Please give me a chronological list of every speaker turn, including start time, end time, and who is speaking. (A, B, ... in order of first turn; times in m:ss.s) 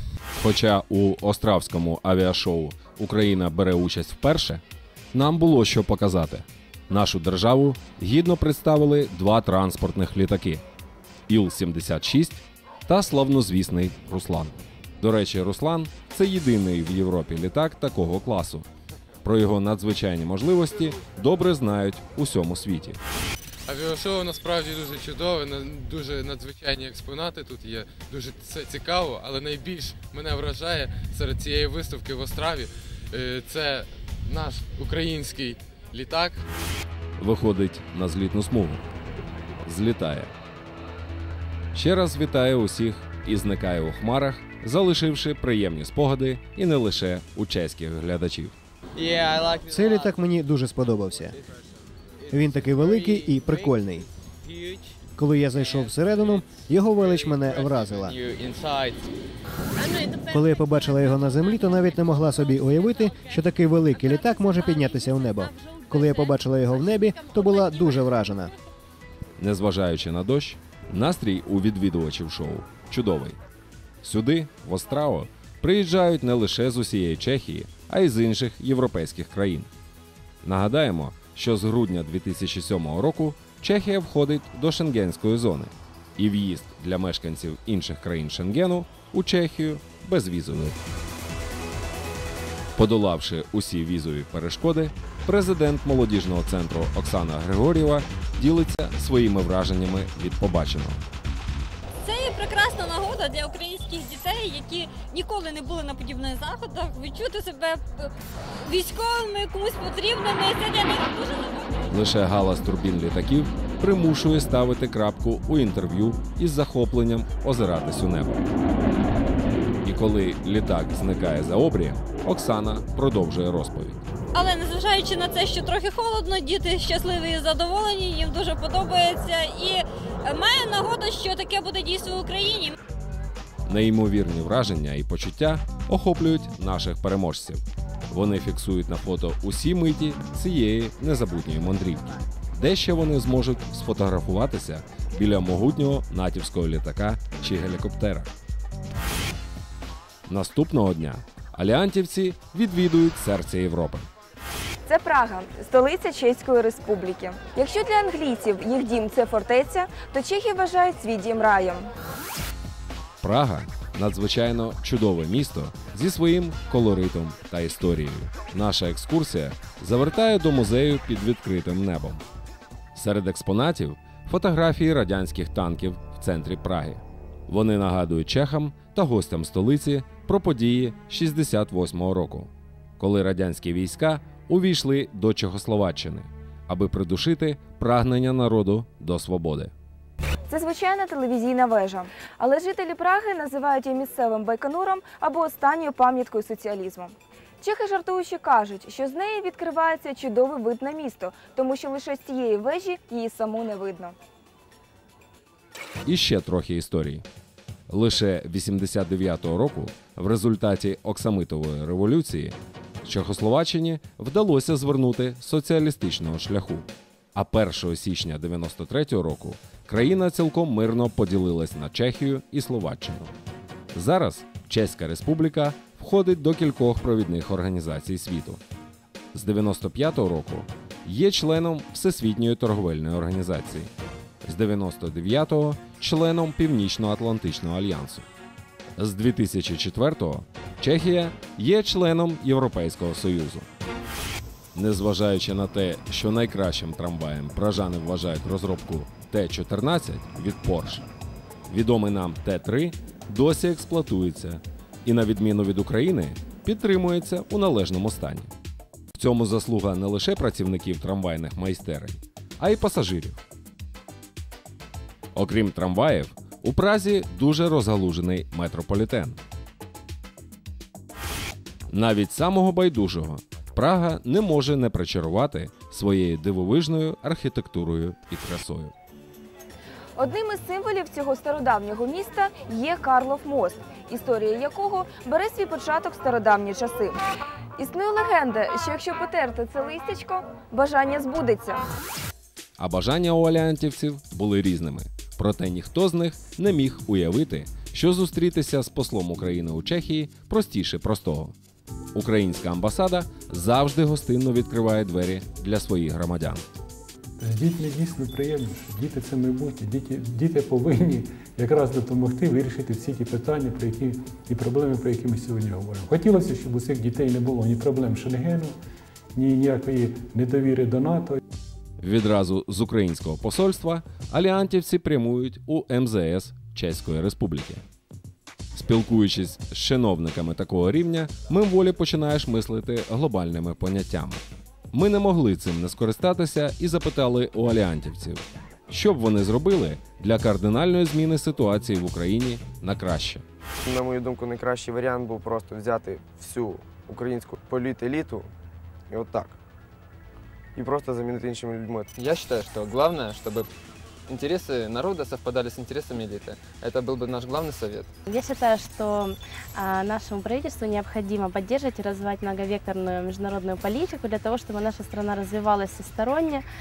0:00.4-0:04.6 A
0:05.1-0:10.6 A
0:11.3-0:18.7 A
0:19.2-0:23.0 A
0:23.7-0:36.4 B
0:37.2-0:38.8 A
0:39.6-0:40.3 A
0:41.7-0:48.6 A
0:49.7-0:51.4 C
0:52.3-0:54.1 C
0:55.2-0:58.2 C
0:57.1-0:59.1 D
0:59.9-1:08.3 E
1:00.3-1:08.5 C
1:09.4-1:13.4 A
1:14.0-1:19.7 A
1:20.4-1:30.8 A
1:32.8-1:41.1 A
1:42.0-1:48.1 E
1:48.6-1:51.8 E
1:51.9-1:58.5 A
1:59.8-2:04.0 A
2:04.3-2:12.7 E
2:13.7-2:28.3 A
2:30.3-2:34.1 A
2:34.9-2:41.9 F
2:43.2-2:52.2 A
2:52.9-3:09.7 A
3:10.5-3:24.1 F
3:26.0-3:27.2 A
3:27.9-3:43.3 A
3:43.9-3:48.6 A
3:49.3-3:53.9 A
3:54.4-3:58.3 A
3:59.0-4:03.7 A
4:04.7-4:11.1 A
4:11.7-4:18.5 A
4:19.1-4:23.4 A
4:25.3-4:29.4 A
4:31.9-4:38.9 A
4:40.2-4:47.2 F
4:47.8-4:51.8 F
4:52.8-5:01.5 A
5:02.1-5:06.6 A
5:07.4-5:18.8 G
5:19.4-5:21.4 G
5:22.0-5:27.8 A
5:28.7-5:43.4 A
5:43.8-5:48.5 H
5:49.1-5:49.6 H
5:50.8-5:52.1 H
5:52.1-5:53.7 D
5:54.3-5:58.1 D
5:58.3-6:06.6 I